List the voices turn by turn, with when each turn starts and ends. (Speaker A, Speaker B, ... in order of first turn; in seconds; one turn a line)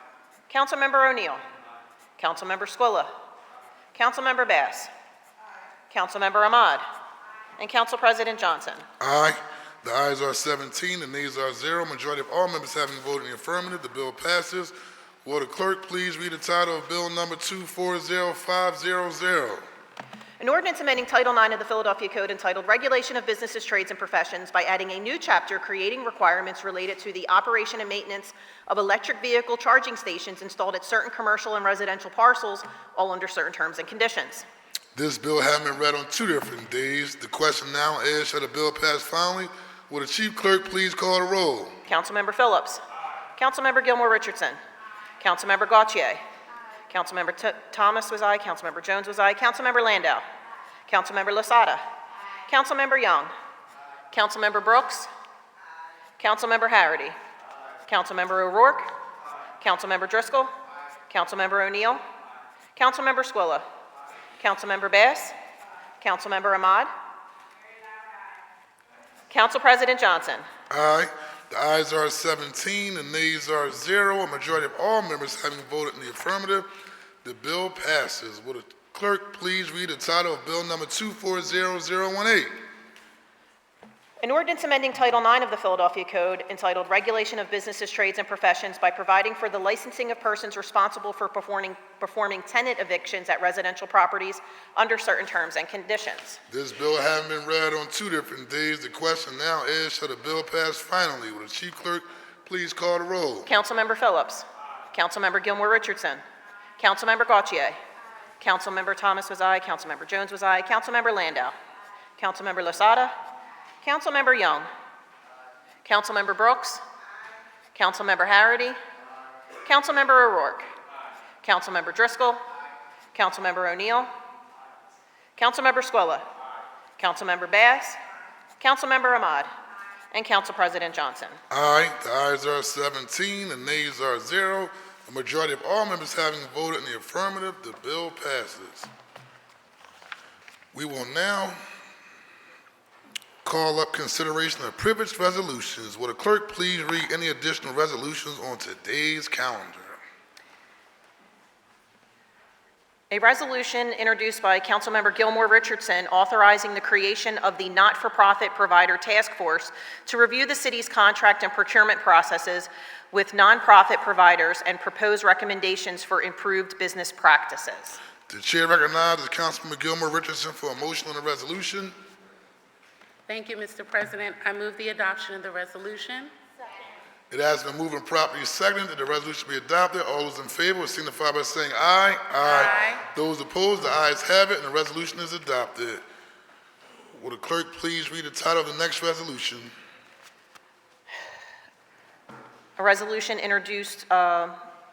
Speaker A: 0.5-1.4
Speaker A: 2.2-3.1
Speaker A: 3.9-4.9
Speaker A: 5.9-6.8
Speaker A: 7.6-8.8
Speaker B: 9.0-19.6
Speaker A: 20.4-34.5
Speaker B: 35.0-41.8
Speaker A: 41.9-42.8
Speaker A: 43.4-44.6
Speaker A: 45.2-46.2
Speaker A: 46.9-50.2
Speaker A: 50.9-51.8
Speaker A: 52.5-53.3
Speaker A: 54.1-55.1
Speaker A: 56.2-57.2
Speaker A: 57.9-58.9
Speaker A: 59.6-60.5
Speaker A: 61.1-62.0
Speaker A: 62.7-63.6
Speaker A: 64.4-65.3
Speaker A: 66.0-66.9
Speaker A: 69.3-70.5
Speaker B: 70.7-76.7
Speaker B: 77.2-82.5
Speaker A: 84.2-96.4
Speaker B: 96.5-103.5
Speaker A: 103.4-106.2
Speaker A: 106.8-107.8
Speaker A: 108.4-111.5
Speaker A: 112.2-113.1
Speaker A: 113.8-114.7
Speaker A: 115.8-116.8
Speaker A: 117.7-118.8
Speaker A: 119.6-120.7
Speaker A: 121.4-122.4
Speaker A: 123.1-124.1
Speaker A: 125.4-126.2
Speaker A: 127.0-128.0
Speaker A: 128.6-129.5
Speaker A: 130.1-131.4
Speaker B: 131.5-138.9
Speaker B: 140.7-141.6
Speaker B: 143.4-150.0
Speaker A: 153.1-168.0
Speaker B: 168.3-171.9
Speaker C: 173.3-176.3
Speaker B: 177.3-186.0
Speaker C: 182.4-183.0
Speaker B: 187.1-189.7
Speaker A: 192.8-194.6